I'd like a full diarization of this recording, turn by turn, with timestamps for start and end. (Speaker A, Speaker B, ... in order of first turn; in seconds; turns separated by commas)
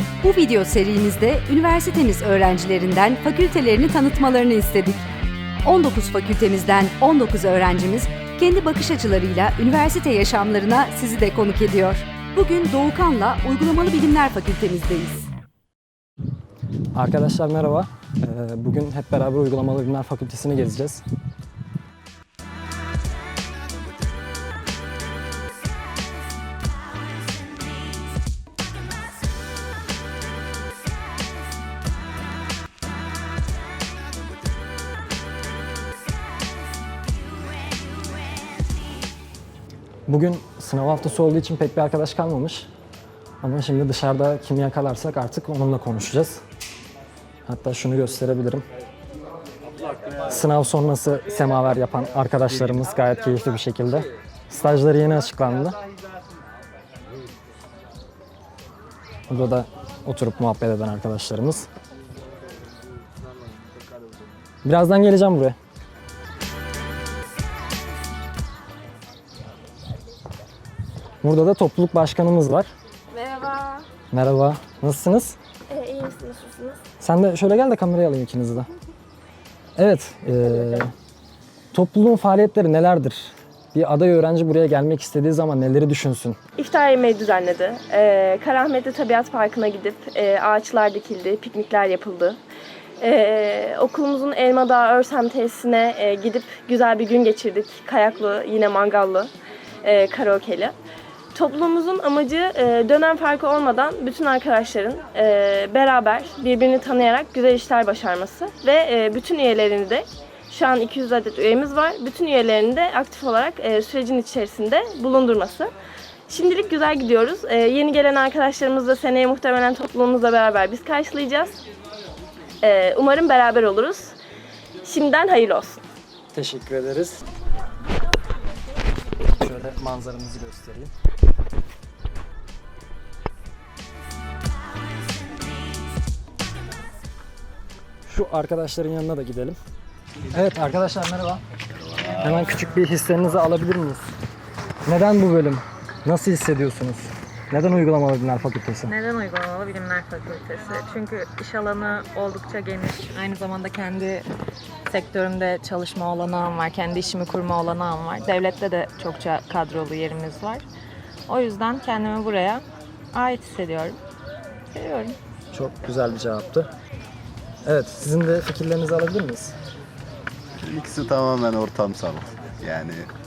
Speaker A: 0.2-5.0, Speaker A: 5.7-15.3, Speaker B: 16.9-21.0, Speaker B: 40.1-42.7, Speaker B: 43.4-46.4, Speaker B: 47.5-48.6, Speaker B: 50.3-55.8, Speaker B: 59.3-61.7, Speaker B: 64.6-65.6, Speaker B: 71.2-72.7, Speaker C: 73.1-73.8, Speaker B: 74.1-75.4, Speaker C: 75.7-76.8, Speaker B: 77.0-78.7, Speaker B: 79.8-80.9, Speaker B: 81.7-86.4, Speaker C: 86.6-92.4, Speaker C: 93.0-99.3, Speaker C: 99.8-100.7, Speaker C: 101.3-115.7, Speaker C: 116.3-121.6, Speaker C: 122.6-124.2, Speaker C: 124.8-125.8, Speaker B: 126.3-127.2, Speaker B: 129.4-130.9, Speaker B: 138.1-139.6, Speaker B: 140.3-141.4, Speaker D: 141.8-142.3, Speaker B: 142.2-144.0, Speaker B: 144.9-149.0, Speaker E: 148.9-154.2, Speaker E: 154.9-160.6, Speaker E: 161.3-164.0, Speaker E: 164.8-165.1, Speaker B: 165.5-166.7, Speaker B: 167.7-169.6, Speaker D: 170.6-173.1